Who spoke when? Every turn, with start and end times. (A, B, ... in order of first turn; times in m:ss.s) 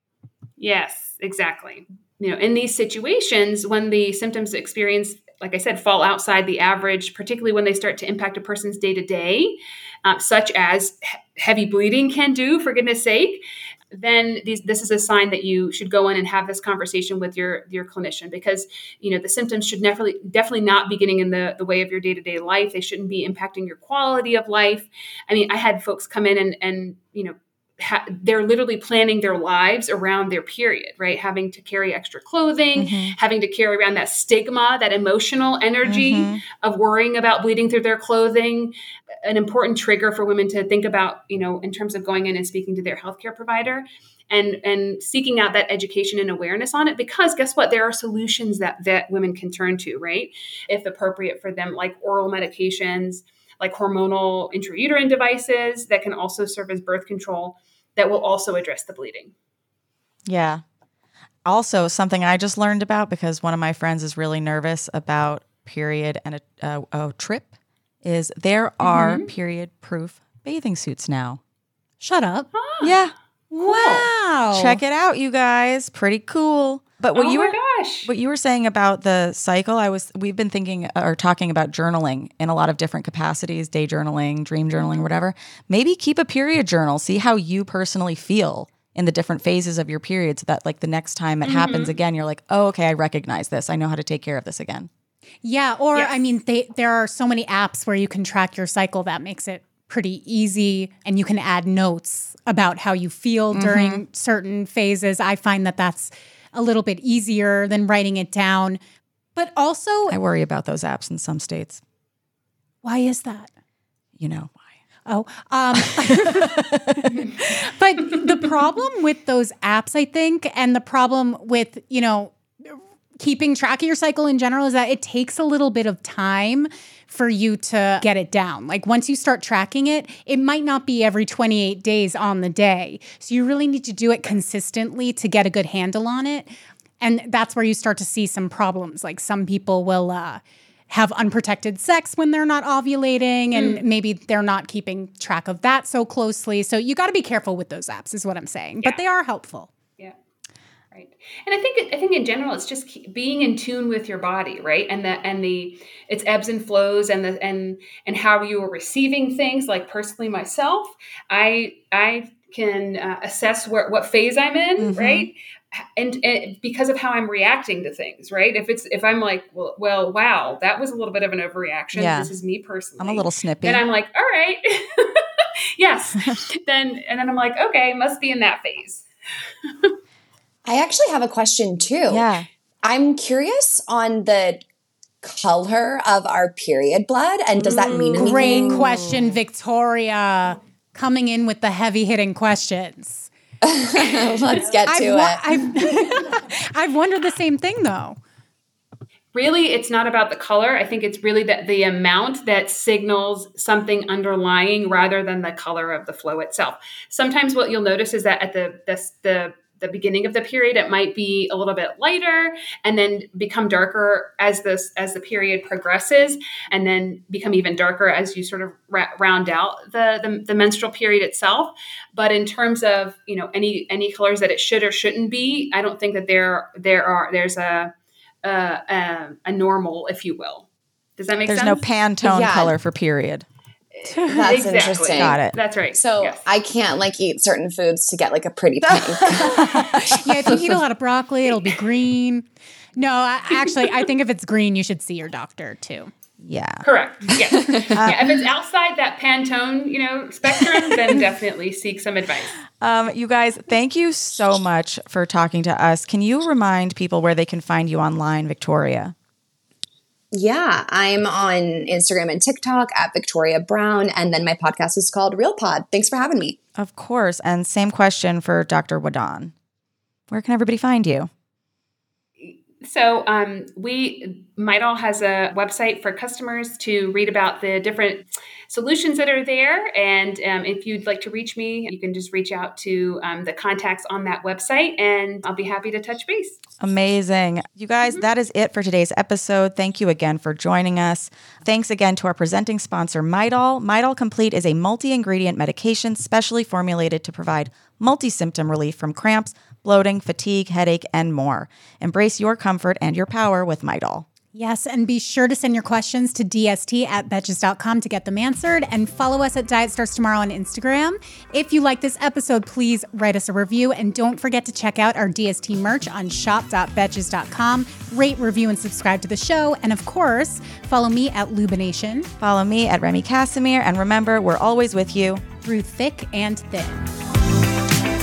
0:00.6-0:59.3 A
0:32.8-0:33.1 B
0:35.8-0:36.4 B
1:00.2-1:00.6 B
1:01.4-1:07.5 B
1:08.0-1:11.4 B
1:08.8-1:09.3 A
1:12.0-1:12.5 C
1:12.5-1:13.0 A
1:12.8-1:13.1 B
1:13.5-1:14.8 C
1:13.6-1:14.1 A
1:14.5-1:34.9 B
1:17.1-1:18.1 A
1:24.8-1:25.0 A
1:31.4-1:32.0 A
1:35.4-1:48.8 C
1:43.5-1:44.0 B
1:49.4-1:50.2 C
1:50.1-1:51.8 B
1:52.8-1:53.5 C
1:54.2-1:54.6 B
1:55.1-2:29.7 C
1:56.0-1:57.3 B
2:23.5-2:23.8 A
2:30.9-2:59.0 A
2:44.8-2:45.3 B
2:51.9-2:52.3 B
2:53.0-2:53.8 B
2:59.6-2:59.9 A
3:00.6-3:02.2 D
3:02.1-3:02.5 B
3:02.8-3:04.6 D
3:05.2-3:08.8 D
3:07.6-3:09.3 B
3:08.1-3:13.3 C
3:13.6-3:15.6 D
3:14.8-3:18.2 C
3:19.3-3:47.9 A
3:48.4-3:51.8 A
3:51.5-3:53.4 B
3:52.2-3:52.8 D
3:53.9-3:56.4 A
3:54.2-3:55.4 D
3:55.1-3:55.6 B
3:55.9-4:00.6 D
3:59.4-4:00.6 B
4:00.1-4:06.1 C
4:06.4-4:06.8 B
4:06.8-4:12.6 A
4:07.5-4:08.1 D
4:08.0-4:08.4 B
4:12.7-4:19.1 B
4:20.3-4:26.6 D
4:26.8-4:29.5 B
4:30.3-4:31.3 B
4:32.4-4:46.6 A
4:46.8-5:04.2 B
4:48.0-4:48.3 A
5:04.5-5:22.3 C
5:22.4-5:25.4 B
5:25.6-5:27.0 C